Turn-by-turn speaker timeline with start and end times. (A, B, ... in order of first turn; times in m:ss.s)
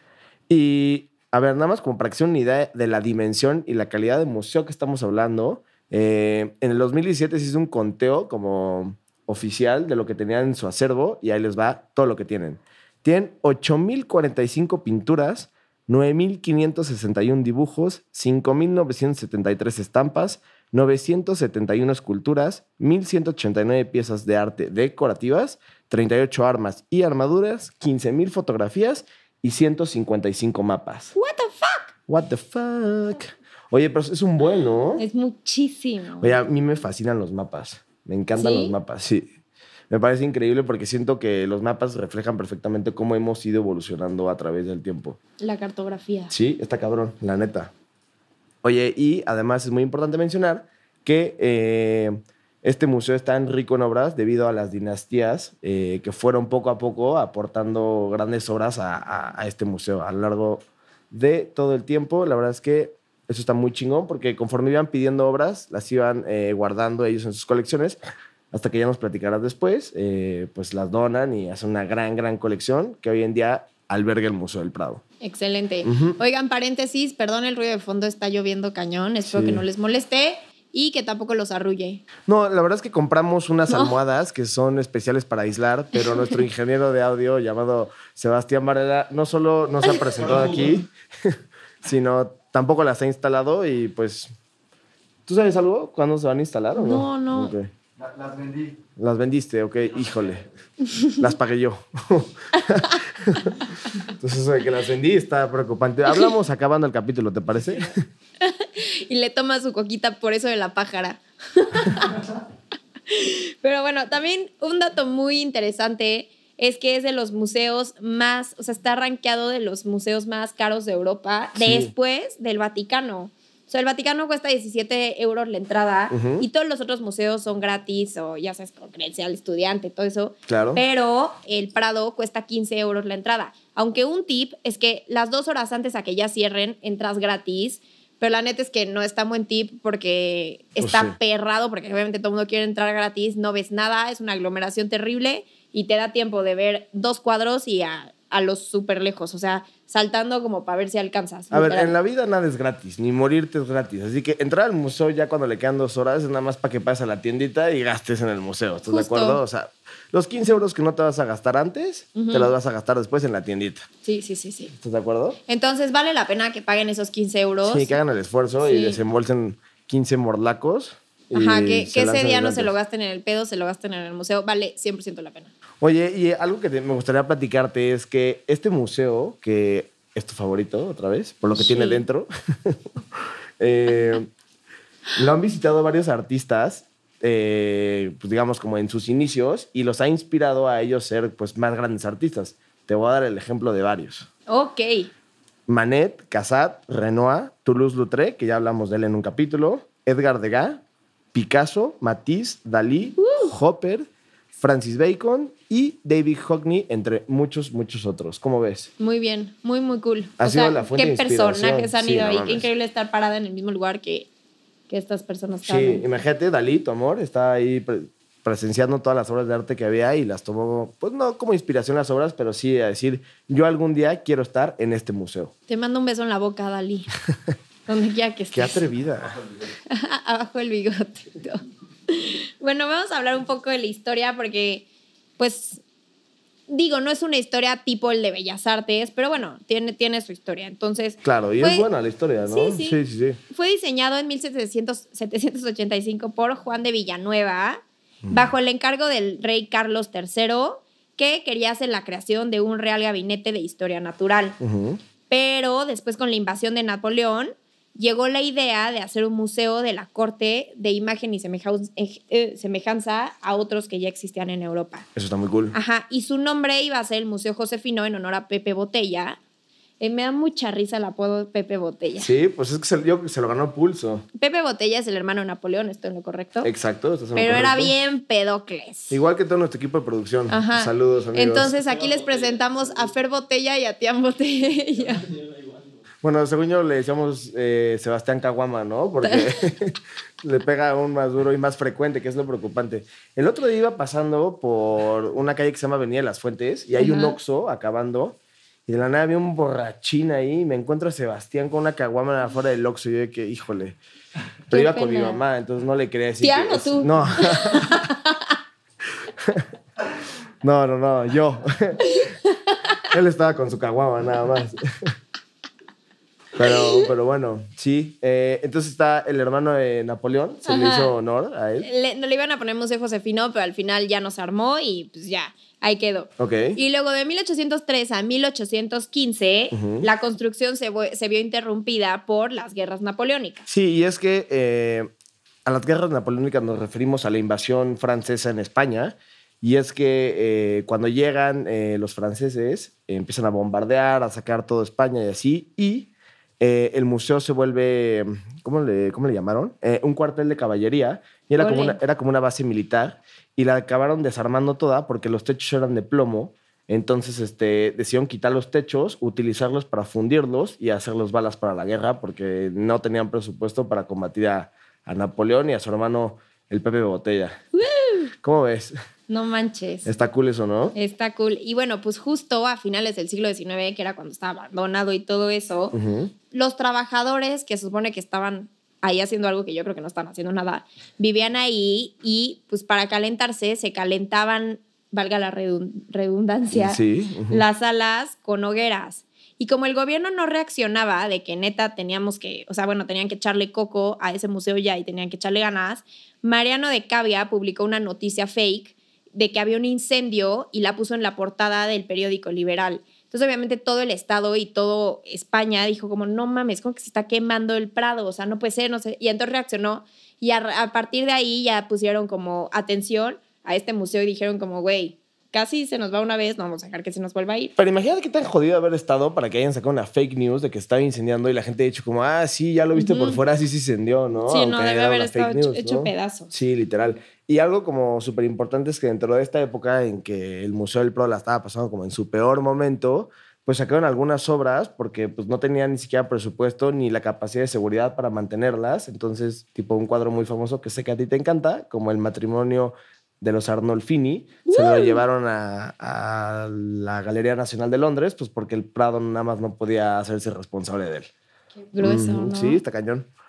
0:00.5-0:31.1 A
0:31.1-0:31.9 B
0:32.1-0:35.0 A
0:35.0-0:36.4 B
0:36.2-0:39.3 A
0:38.4-0:38.8 B
0:39.9-0:45.2 A
0:45.4-0:46.3 B
0:46.3-0:47.7 A
0:48.6-1:08.0 A
1:08.5-1:15.0 A
1:15.2-1:22.0 B
1:15.8-1:16.2 A
1:19.3-1:19.6 A
1:22.3-1:34.3 A
1:30.3-1:30.8 C
1:35.3-1:37.7 A
1:36.8-1:37.6 B
1:38.0-1:38.8 C
1:39.0-1:40.5 A
1:40.9-1:41.2 B
1:41.2-1:48.0 A
1:48.4-1:52.2 B
1:53.1-2:31.9 B
2:01.6-2:01.9 A
2:06.1-2:06.5 A
2:10.5-2:10.8 A
2:20.8-2:21.2 A
2:31.5-2:43.9 A
2:38.9-2:39.4 B
2:42.2-2:42.5 B
2:44.0-2:44.7 B
2:44.8-2:45.4 A
2:45.5-2:48.0 B
2:47.6-2:52.7 A
2:48.6-2:49.0 B
2:51.3-2:55.5 B
2:55.8-3:02.9 A
3:01.6-3:02.0 B
3:03.6-3:04.3 A
3:05.2-3:14.3 A
3:14.5-3:15.1 B
3:15.7-3:20.8 A
3:21.3-3:28.9 A
3:23.2-3:23.5 B
3:29.0-3:34.3 B
3:30.4-3:32.7 A
3:34.9-3:36.0 B
3:35.6-3:45.5 A
3:45.7-3:47.1 B
3:47.9-3:48.8 B
3:48.5-3:49.4 A
3:49.9-3:54.9 B
3:55.4-3:55.8 B
3:56.7-4:01.9 B
4:01.2-4:03.4 A
4:02.5-4:14.6 B
4:08.2-4:08.5 A
4:14.6-4:15.0 A
4:15.3-4:25.1 B
4:25.2-4:25.8 A
4:25.7-4:29.4 B
4:30.0-4:32.3 B
4:32.2-4:34.3 A
4:34.4-4:36.7 B
4:36.6-4:37.9 A
4:37.4-4:39.2 B
4:39.1-4:41.7 A
4:40.5-4:45.3 B
4:41.8-4:42.4 C
4:46.2-5:04.0 A
4:49.2-4:49.6 B
4:57.0-4:57.4 B
5:04.7-5:08.1 A
5:04.7-5:05.4 B
5:06.4-5:08.6 B
5:09.4-5:09.7 A
5:10.6-5:12.2 A
5:12.0-5:13.1 B
5:13.1-5:15.1 A
5:16.6-5:21.9 A
5:16.7-5:17.1 B
5:20.7-5:21.1 B
5:21.8-5:33.7 B
5:26.4-5:26.8 A
5:29.7-5:30.1 A
5:33.7-5:35.1 A
5:35.7-6:07.6 A
5:51.6-5:52.0 B
6:07.8-6:08.3 B
6:08.4-6:09.0 A
6:09.3-6:10.1 B
6:10.1-6:11.0 A
6:11.0-6:16.0 B
6:15.9-6:16.3 A
6:16.5-6:57.7 B
6:26.7-6:27.6 A
6:57.8-7:31.3 A
7:03.0-7:03.4 B
7:04.5-7:06.5 B
7:24.7-7:25.2 B
7:31.8-7:32.8 B
7:32.0-7:33.3 A